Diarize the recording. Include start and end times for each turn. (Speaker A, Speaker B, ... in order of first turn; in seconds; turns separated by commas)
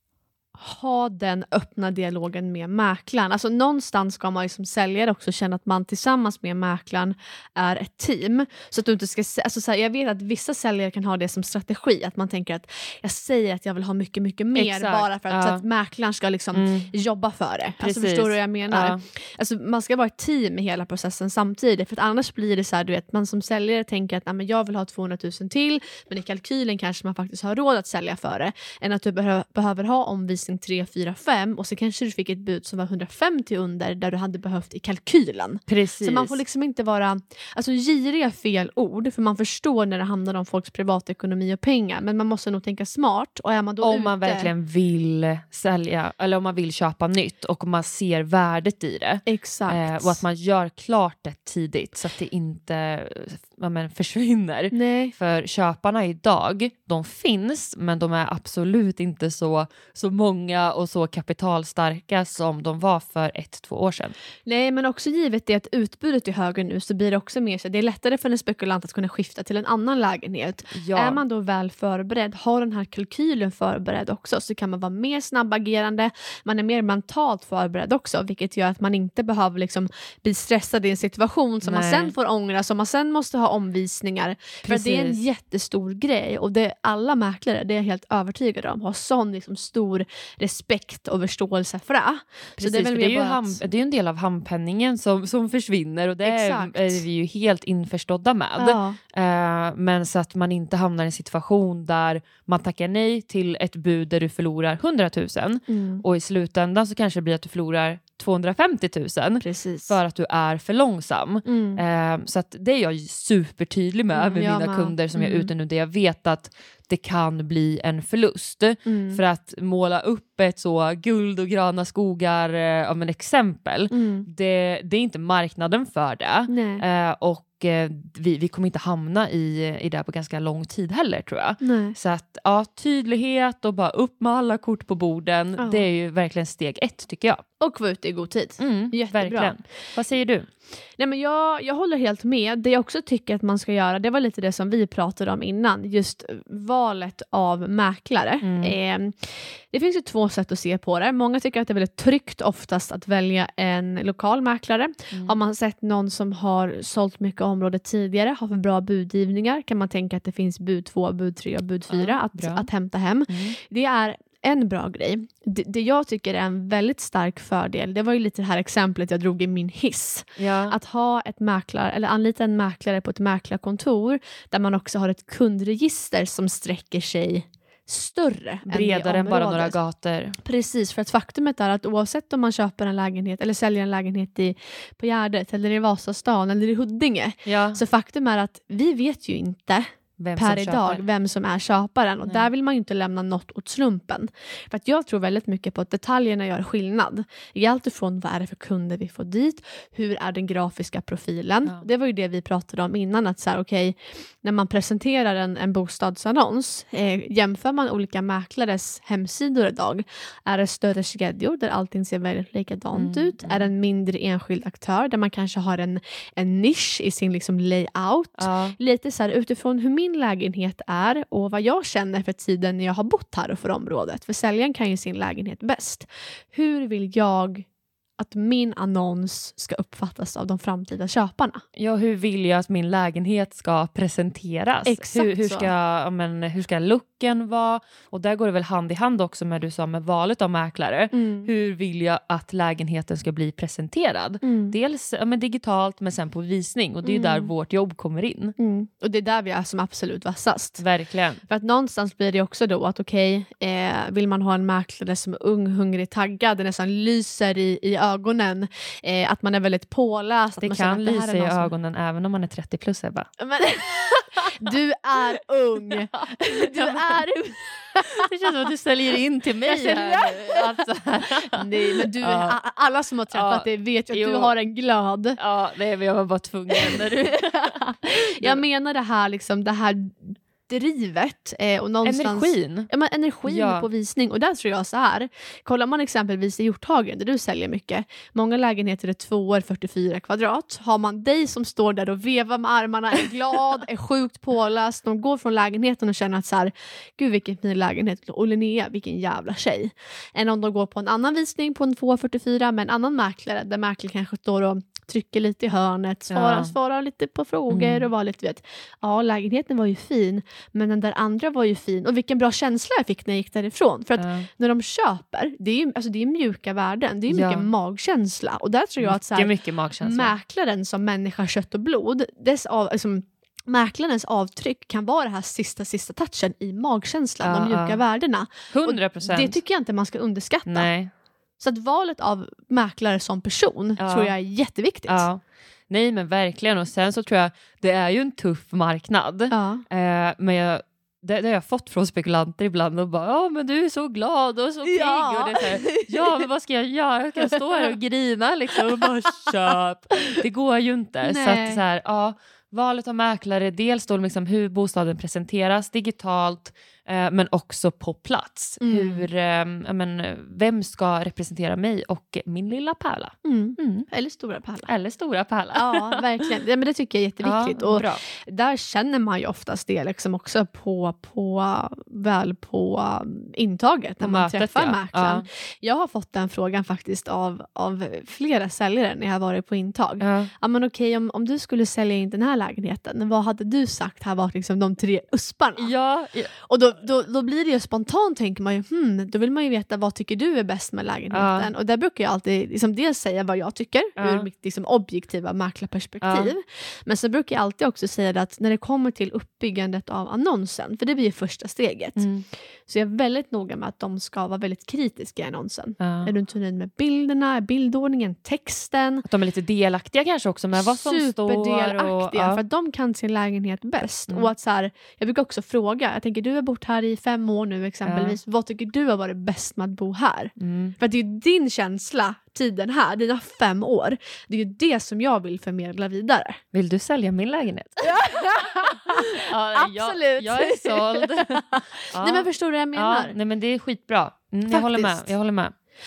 Speaker A: 0.6-44.5, Speaker B: 14.6-15.6, Speaker B: 16.5-16.9, Speaker B: 17.8-19.0, Speaker B: 35.7-36.4, Speaker B: 43.8-64.2, Speaker A: 49.3-50.2, Speaker A: 54.7-55.1, Speaker A: 64.5-93.6, Speaker B: 70.7-71.2, Speaker B: 81.6-82.1, Speaker B: 84.7-85.2, Speaker B: 92.6-137.4, Speaker A: 96.2-97.0, Speaker A: 98.6-99.0, Speaker A: 105.7-106.0, Speaker A: 109.4-110.0, Speaker A: 111.5-111.8, Speaker A: 114.1-115.5, Speaker A: 118.8-119.2, Speaker A: 123.9-124.3, Speaker A: 126.5-126.8, Speaker A: 131.6-132.0, Speaker A: 135.6-135.9, Speaker A: 137.6-139.9, Speaker B: 138.6-140.5, Speaker A: 141.0-179.8, Speaker B: 148.4-148.8, Speaker B: 155.1-155.4, Speaker B: 161.9-162.7, Speaker B: 163.3-163.6, Speaker B: 170.4-170.8, Speaker B: 178.7-180.4, Speaker A: 180.4-227.7, Speaker B: 187.5-187.8, Speaker B: 190.2-191.0, Speaker B: 212.9-213.7, Speaker B: 218.4-218.8, Speaker A: 228.2-231.6, Speaker B: 231.8-248.6, Speaker A: 234.8-235.7, Speaker A: 241.1-241.5, Speaker A: 244.4-244.8, Speaker A: 247.0-247.5, Speaker A: 248.6-250.8, Speaker B: 250.8-251.4, Speaker A: 251.5-261.7, Speaker B: 260.6-263.3, Speaker A: 263.4-268.3, Speaker B: 265.9-267.2, Speaker B: 268.1-272.6, Speaker A: 269.7-275.4, Speaker B: 273.3-274.5, Speaker B: 275.4-278.6, Speaker A: 276.7-319.5, Speaker B: 282.0-282.9, Speaker B: 283.5-283.9, Speaker B: 306.3-306.7, Speaker B: 307.7-308.1, Speaker B: 314.2-314.5, Speaker B: 317.3-317.7, Speaker B: 319.0-320.3, Speaker A: 320.0-330.9, Speaker B: 327.4-328.0, Speaker B: 328.7-329.6, Speaker B: 330.7-331.1, Speaker A: 331.6-335.3, Speaker B: 334.0-334.3, Speaker B: 335.1-364.1, Speaker A: 339.5-339.8, Speaker A: 344.8-346.4, Speaker A: 347.4-347.9, Speaker A: 351.2-351.8, Speaker A: 358.8-359.3, Speaker A: 363.4-364.9, Speaker B: 364.9-366.2, Speaker A: 365.7-385.9, Speaker B: 367.4-368.2, Speaker B: 374.2-375.4, Speaker B: 380.2-380.5, Speaker B: 385.8-386.5, Speaker A: 386.6-402.3, Speaker B: 391.3-391.7, Speaker B: 394.2-394.5, Speaker B: 396.2-396.5, Speaker B: 402.2-402.4, Speaker A: 402.9-409.3, Speaker B: 406.0-406.3, Speaker B: 409.2-412.6, Speaker A: 410.8-426.6, Speaker B: 418.1-418.4, Speaker B: 420.6-421.0, Speaker B: 426.7-435.7, Speaker A: 428.0-433.4, Speaker A: 434.7-435.3